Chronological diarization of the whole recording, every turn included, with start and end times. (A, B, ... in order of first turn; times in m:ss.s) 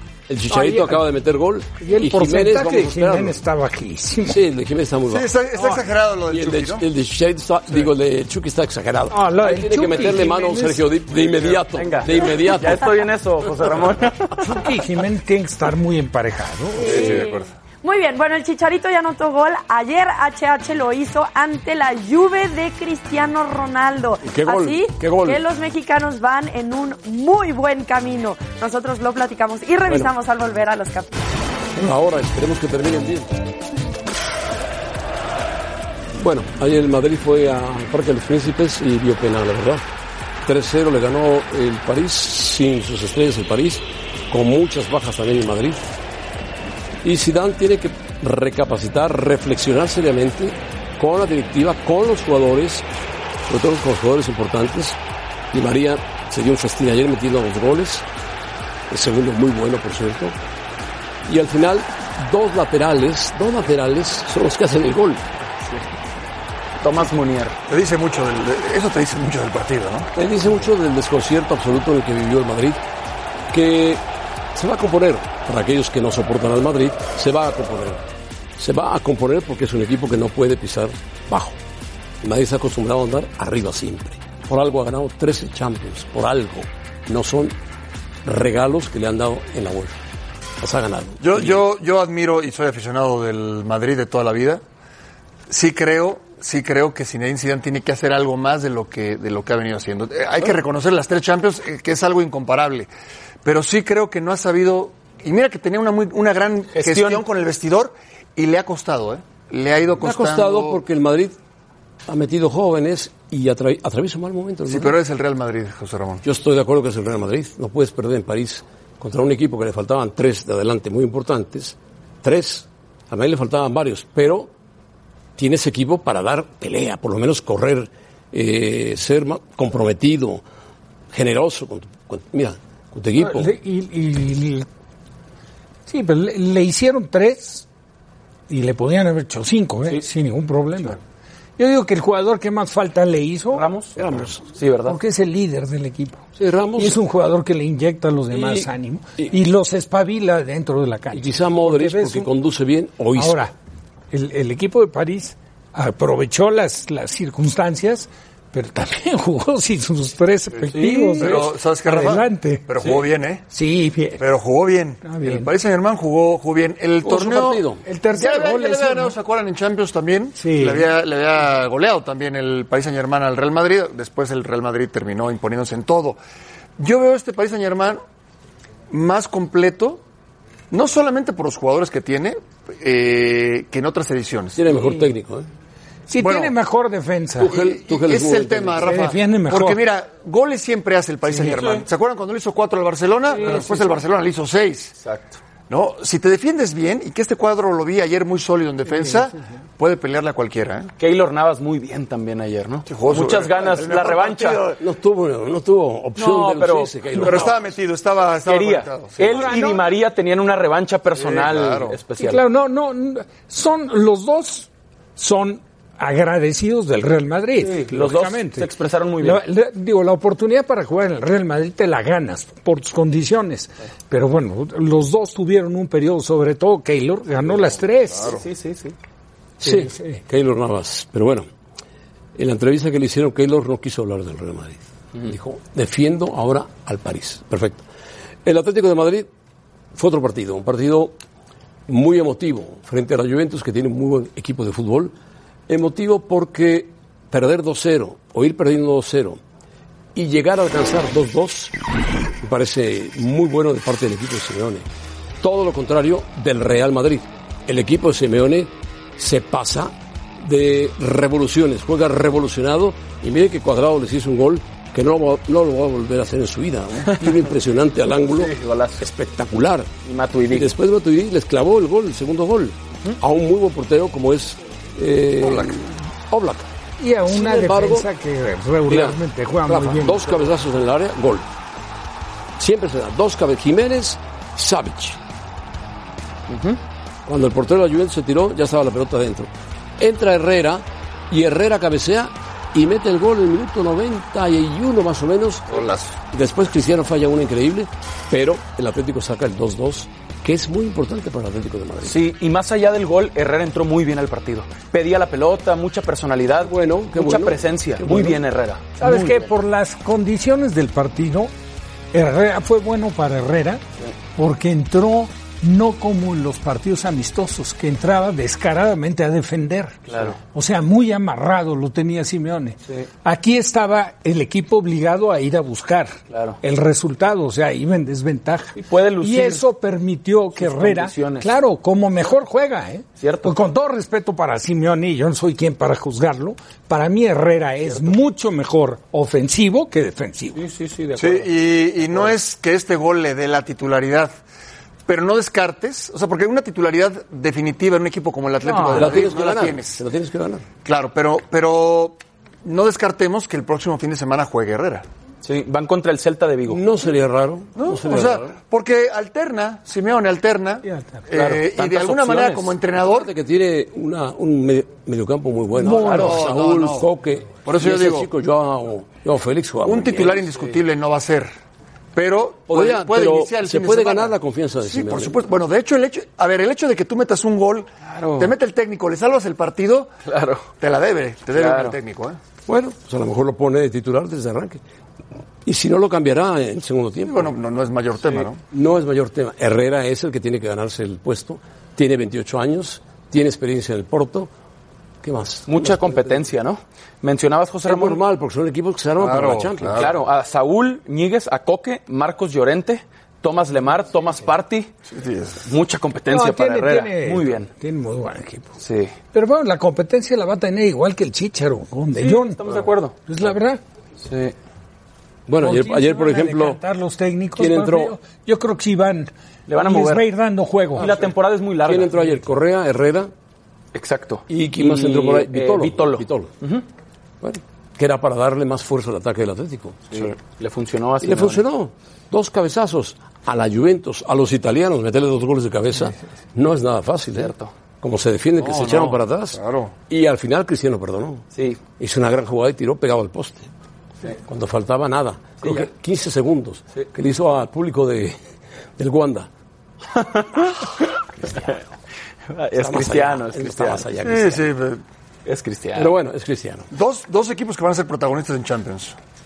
0:00.3-0:03.4 A
0:00.5-0:01.0 B
0:01.8-0:04.4 B
0:04.2-0:05.4 A
0:05.1-0:06.8 C
0:06.3-0:12.9 A
0:09.1-0:10.9 B
0:11.5-0:14.6 D
0:14.4-0:17.0 B
0:16.8-0:31.2 E
0:16.8-0:17.5 C
0:24.2-0:25.4 A
0:29.9-0:30.1 A
0:31.8-0:33.4 A
0:36.1-0:39.8 A
0:40.4-0:45.9 A
0:47.0-0:52.9 A
0:53.5-0:55.0 A
0:55.5-0:58.0 A
0:58.9-1:00.4 A
1:01.2-1:05.3 A
1:05.5-1:05.8 D
1:06.8-1:07.6 D
1:07.7-1:10.1 C
1:10.2-1:12.8 A
1:13.5-1:14.0 A
1:14.5-1:18.0 A
1:18.6-1:21.6 A
1:22.2-1:27.6 A
1:28.2-1:30.0 A
1:30.6-1:31.6 A
1:31.2-1:34.6 C
1:35.5-1:42.9 C
1:43.4-1:50.8 C
1:46.7-1:47.2 D
1:50.0-1:51.4 A
1:52.1-1:54.9 A
1:54.7-1:56.2 C
1:56.2-2:04.5 A
2:05.4-2:10.4 A
2:11.1-2:13.5 A
2:13.2-2:14.6 B
2:15.9-2:17.6 B
2:18.5-2:21.0 B
2:21.6-2:23.6 B
2:23.5-2:24.0 D
2:24.0-2:24.4 A
2:24.5-2:25.0 D
2:24.8-2:26.2 B
2:26.3-2:27.0 A
2:26.8-2:32.3 B
2:28.3-2:28.7 A
2:31.1-2:33.4 A
2:33.1-2:33.5 B
2:34.1-2:42.6 B
2:40.6-2:43.4 C
2:40.7-2:41.3 D
2:43.5-2:44.2 B
2:44.2-2:56.2 C
2:45.0-2:45.5 B
2:47.0-2:47.8 A
2:47.8-2:49.2 B
2:50.4-2:50.9 B
2:56.8-2:58.0 C
2:58.9-3:00.0 C
3:00.7-3:04.6 C
3:04.5-3:05.5 A
3:06.1-3:07.5 B
3:06.2-3:06.5 C
3:07.4-3:09.0 A
3:07.4-3:15.0 C
3:08.8-3:09.8 B
3:13.3-3:13.9 B
3:15.0-3:15.4 D
3:15.7-3:20.9 C
3:21.0-3:24.7 D
3:22.9-3:24.8 C
3:24.8-3:27.6 A
3:26.2-3:27.5 D
3:27.2-3:29.6 C
3:28.4-3:32.4 D
3:29.3-3:29.8 B
3:31.1-3:32.0 C
3:32.2-3:38.7 B
3:37.6-3:39.4 D
3:39.2-3:48.3 B
3:48.2-3:48.9 D
3:49.6-3:51.5 A
3:49.6-3:50.2 B
3:52.4-3:57.8 A
3:58.4-3:59.3 A
3:59.9-4:01.2 A
4:01.9-4:05.1 A
4:05.7-4:09.4 A
4:10.1-4:11.7 A
4:12.4-4:14.8 A
4:15.4-4:29.9 A
4:28.3-4:29.0 D
4:30.0-4:30.7 D
4:30.5-4:36.7 A
4:37.0-4:40.3 B
4:37.2-4:38.1 A
4:38.9-4:41.5 A
4:42.6-4:45.2 A
4:46.5-4:46.8 D
4:47.2-4:55.7 A
4:55.7-4:56.1 C
4:56.3-5:02.2 A
5:02.0-5:09.4 D
5:06.6-5:08.4 A
5:09.0-5:11.5 B
5:12.1-5:13.8 B
5:14.4-5:40.6 B
5:20.1-5:20.4 D
5:26.3-5:26.6 D
5:28.8-5:29.6 D
5:30.6-5:31.5 D
5:33.2-5:33.5 D
5:40.5-5:41.5 D
5:41.2-5:44.3 C
5:45.1-5:50.0 C
5:48.8-5:50.6 A
5:50.8-5:55.0 C
5:55.4-5:56.8 D
5:56.7-5:58.5 A
5:57.8-6:03.3 C
6:00.8-6:01.2 B
6:01.3-6:02.7 D
6:03.0-6:10.5 A
6:05.8-6:06.4 B
6:05.8-6:07.1 C
6:07.6-6:08.3 C
6:09.8-6:11.5 C
6:12.1-6:20.1 C
6:12.7-6:15.4 A
6:18.1-6:18.5 D
6:20.2-6:20.7 D
6:20.8-6:22.4 C
6:21.5-6:22.0 D
6:22.6-6:24.8 A
6:25.6-6:27.5 A
6:27.2-6:28.6 C
6:28.7-6:34.5 A
6:35.2-6:36.2 A
6:35.7-6:38.2 D
6:37.8-6:40.1 A
6:39.2-6:40.1 C
6:39.9-6:44.9 D
6:45.1-6:45.6 C
6:45.6-6:47.7 D
6:46.3-6:48.7 B
6:48.8-6:49.1 D
6:49.3-6:52.6 B
6:52.2-6:53.1 D
6:53.2-6:53.8 B
6:54.2-6:54.5 D
6:55.5-6:56.8 A
6:55.6-6:59.3 B
6:57.6-6:58.1 A
6:59.7-7:00.2 D
6:59.8-7:01.1 B
7:01.0-7:02.2 D
7:01.8-7:03.3 A
7:03.9-7:06.8 D
7:04.5-7:06.5 A
7:07.4-7:10.3 A
7:10.1-7:11.6 D
7:11.2-7:21.4 A
7:17.3-7:17.7 D
7:18.6-7:19.9 C
7:21.5-7:21.8 D
7:22.0-7:23.7 A
7:24.4-7:28.4 A
7:25.6-7:25.9 D
7:29.0-7:29.5 A
7:30.1-7:31.8 D
7:32.5-7:34.0 D
7:32.8-7:34.7 A
7:34.2-7:35.0 C
7:35.4-7:36.1 D
7:35.9-7:36.9 A
7:36.9-7:39.2 C